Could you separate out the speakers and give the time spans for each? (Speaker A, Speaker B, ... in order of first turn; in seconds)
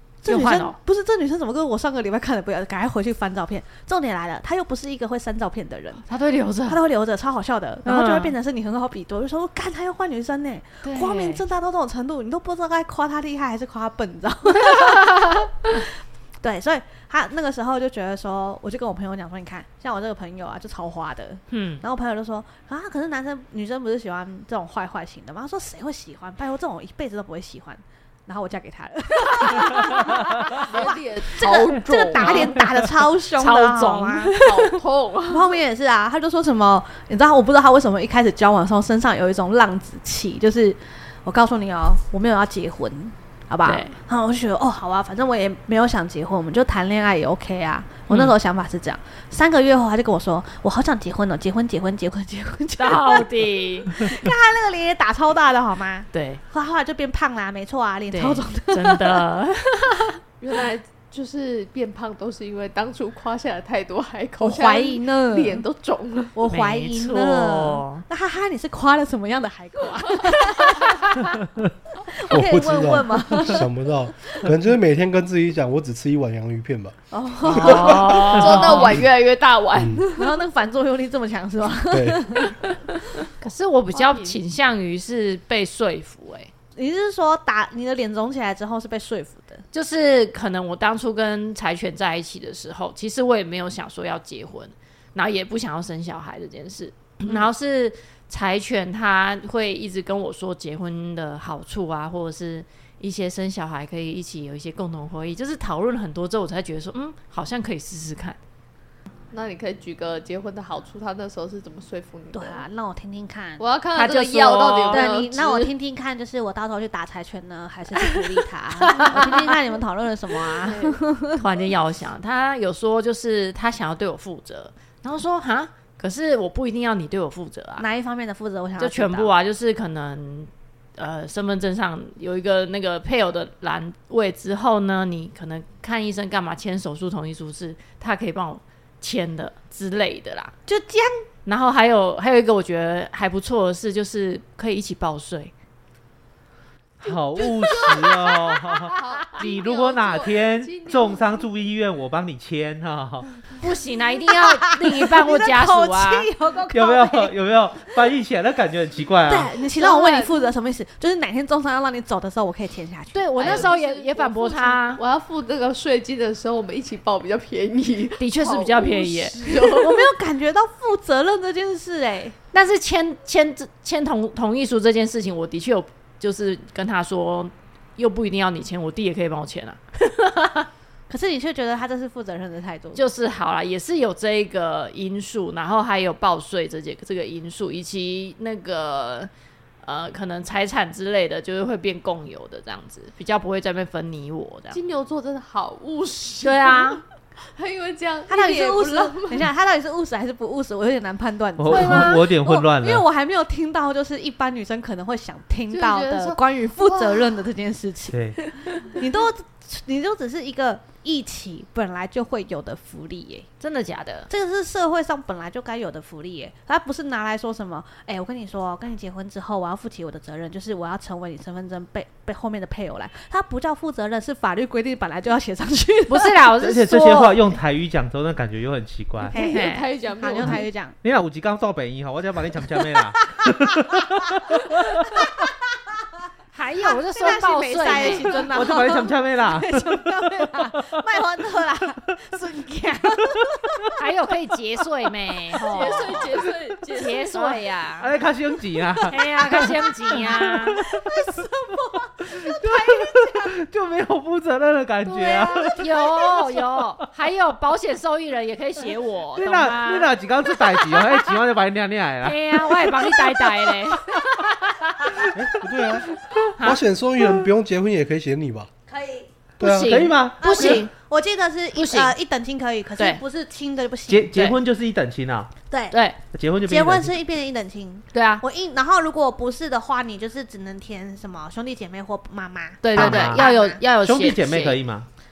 Speaker A: 0.2-6.0, 6.7-34.4, 35.3-59.2, 64.4-65.6, 66.3-71.4, 72.1-73.7, 77.1-78.3, 80.1-82.6, 86.7-89.6, 112.3-113.6, 114.9-121.4, 127.8-129.3, 140.7-141.2, 154.2-157.3, 159.3-163.7, 169.4-172.4, 181.1-183.0, 198.3-213.5, 214.3-226.4, 229.3-230.9, 233.0-236.0, 236.8-244.0, 249.1-253.5, 256.0-256.3, 268.9-269.3, 270.4-274.3, 275.7-276.0, 276.6-283.8
Speaker B: 0.3-0.8, 6.1-6.8, 7.8-8.3, 10.8-11.4, 14.6-15.5, 21.5-21.8, 33.4-34.7, 43.6-44.0, 48.1-48.3, 52.8-54.1, 56.1-56.4, 58.1-60.2, 66.5-68.0, 77.5-79.0, 83.4-86.5, 89.7-108.4, 113.9-115.1, 121.4-127.8, 128.8-140.5, 141.4-145.5, 153.6-156.3, 163.1-165.0, 168.2-169.4, 172.5-180.7, 182.9-189.3, 189.8-194.8, 196.4-197.0, 201.7-202.2, 213.6-214.3, 226.1-227.6, 229.4-229.9, 236.5-238.4, 243.9-246.4, 246.9-248.1, 249.1-250.8, 255.3-260.1, 262.2-265.3, 266.6-266.8, 269.6-270.9, 271.7-272.1, 275.9-276.2, 278.1-278.4, 282.8-284.8
Speaker C: 30.5-32.6, 34.4-35.5, 60.4-66.4, 77.9-80.3, 83.9-84.4, 109.3-112.6, 113.6-115.7, 120.6-121.0, 147.6-148.3, 148.8-151.4, 159.7-160.4, 163.4-170.1, 194.7-197.0, 197.5-199.4, 205.7-207.3, 229.3-230.7, 245.5-247.6
Speaker D: 72.2-77.0, 77.5-78.2, 78.8-79.0, 79.7-80.0, 81.9-82.2, 265.3-268.7, 269.6-270.0
Speaker E: 147.0-153.4, 156.7-159.5, 201.6-203.1, 208.1-208.4, 226.6-229.3, 231.0-235.3, 238.3-241.0, 243.4-243.8, 248.0-251.3, 252.2-255.8, 259.3-263.1, 269.8-270.8, 274.1-275.5, 276.3-277.1, 282.9-283.5, 284.0-285.1